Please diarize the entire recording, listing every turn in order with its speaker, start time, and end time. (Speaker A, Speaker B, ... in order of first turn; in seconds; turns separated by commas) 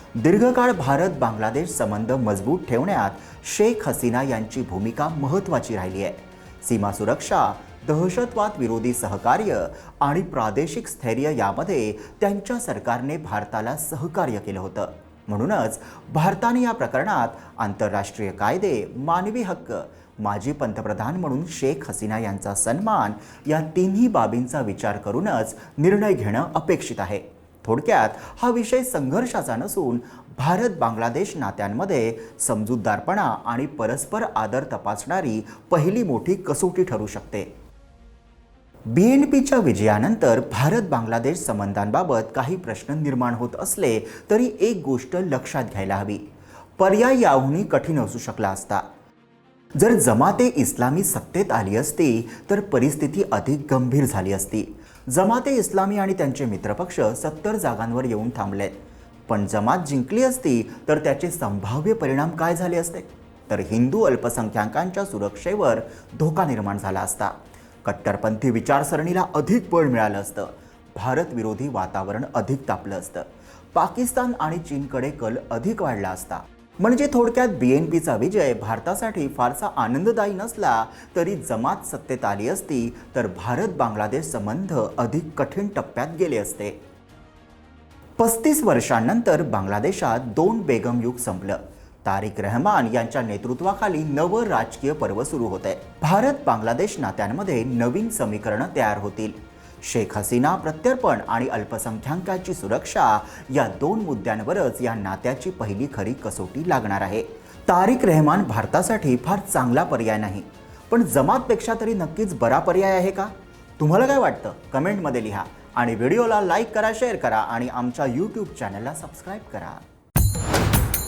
Speaker A: 0.1-37.5, Speaker A: 38.9-46.2, Speaker A: 46.8-48.8, Speaker A: 49.7-58.8, Speaker A: 59.3-86.8, Speaker A: 88.2-119.8